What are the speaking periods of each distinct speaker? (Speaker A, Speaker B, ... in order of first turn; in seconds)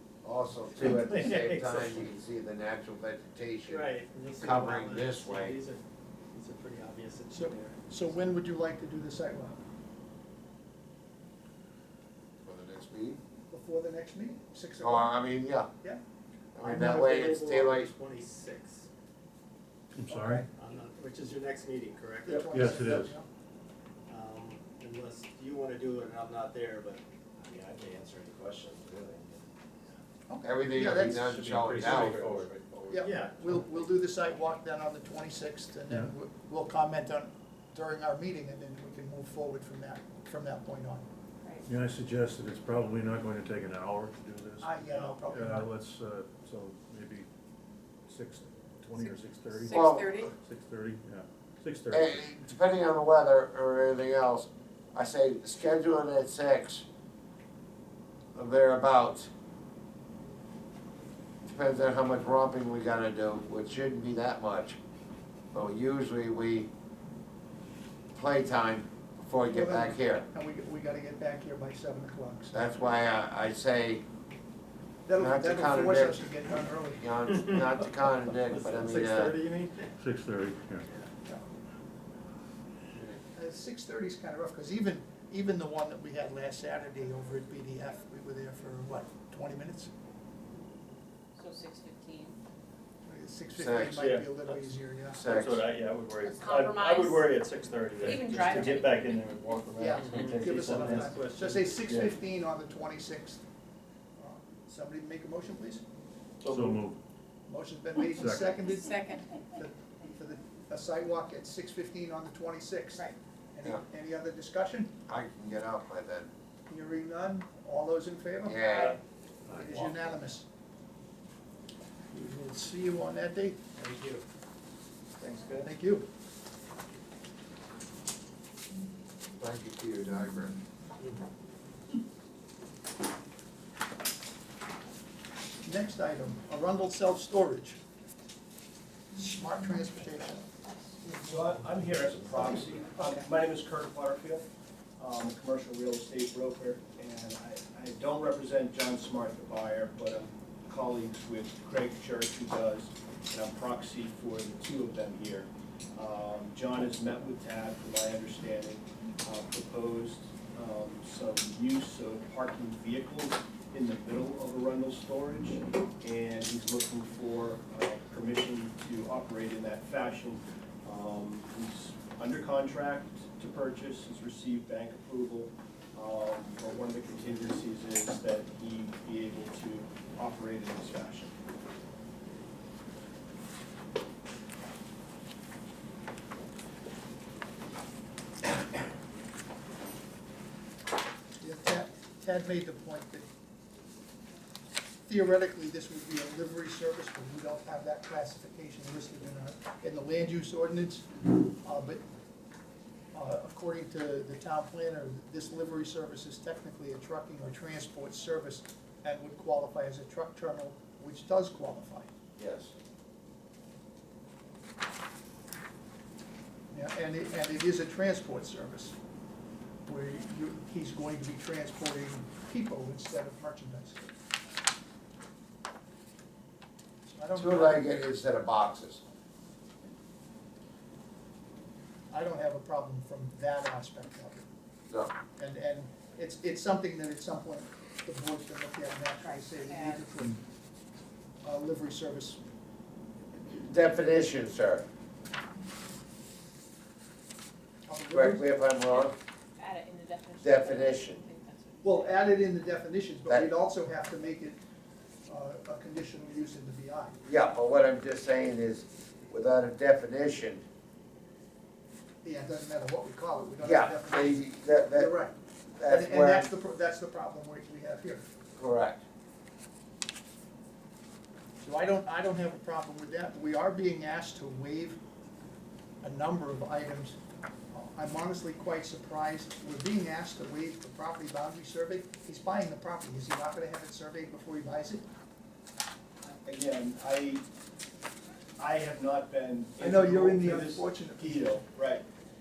Speaker A: 0.2-5.6, 12.4-13.2, 14.8-15.7, 16.6-17.9, 30.4-32.4, 49.7-50.2, 51.9-56.9, 58.4-59.3, 61.5-64.8, 65.5-66.7, 68.2-70.2, 72.5-74.0, 75.2-76.2, 77.0-79.4, 93.6-94.1, 95.1-95.7, 115.1-116.3, 118.4-119.0, 129.4-130.6, 212.4-212.7, 227.3-229.0, 243.5-244.8, 248.1-249.2, 250.4-251.2, 257.2-260.6, 263.6-265.1, 265.8-266.5, 268.6-269.0
Speaker B: 0.8-2.1, 3.7-5.8, 6.3-7.8, 16.6-18.9, 20.6-22.8, 24.1-30.0, 31.4-33.4, 78.5-79.7, 123.8-124.2
Speaker C: 7.3-9.6, 13.5-15.2, 20.1-20.5, 22.2-23.3, 30.3-31.4, 32.9-41.0, 44.6-45.7, 69.5-72.7, 75.1-77.1, 83.3-89.9, 93.0-95.2, 99.8-103.4, 104.2-105.8, 107.5-114.9, 116.7-118.6, 119.5-120.5, 122.1-123.6, 125.6-126.1, 135.6-137.8, 139.2-140.4, 142.5-143.3, 191.4-193.3, 195.1-202.0, 203.1-212.1, 216.7-218.9, 219.9-224.1, 227.1-228.0, 232.1-234.5, 235.4-240.4, 241.4-242.4, 247.9-248.5, 251.8-254.6, 255.3-257.2, 262.2-268.3, 271.6-275.0, 276.0-277.2, 277.7-285.1, 289.8-291.6
Speaker D: 20.0-20.5, 22.5-23.1, 31.3-33.1, 41.7-44.8, 45.3-47.3, 48.1-52.3, 80.0-80.9, 106.5-107.0, 108.2-108.6
Speaker E: 49.0-50.3, 91.4-92.4, 96.5-96.9, 98.0-99.0, 108.7-109.3, 239.2-240.1, 248.9-252.2
Speaker F: 93.8-94.7, 95.2-102.2, 106.5-106.8
Speaker G: 141.3-144.4, 145.0-181.3, 286.4-287.4, 288.6-292.0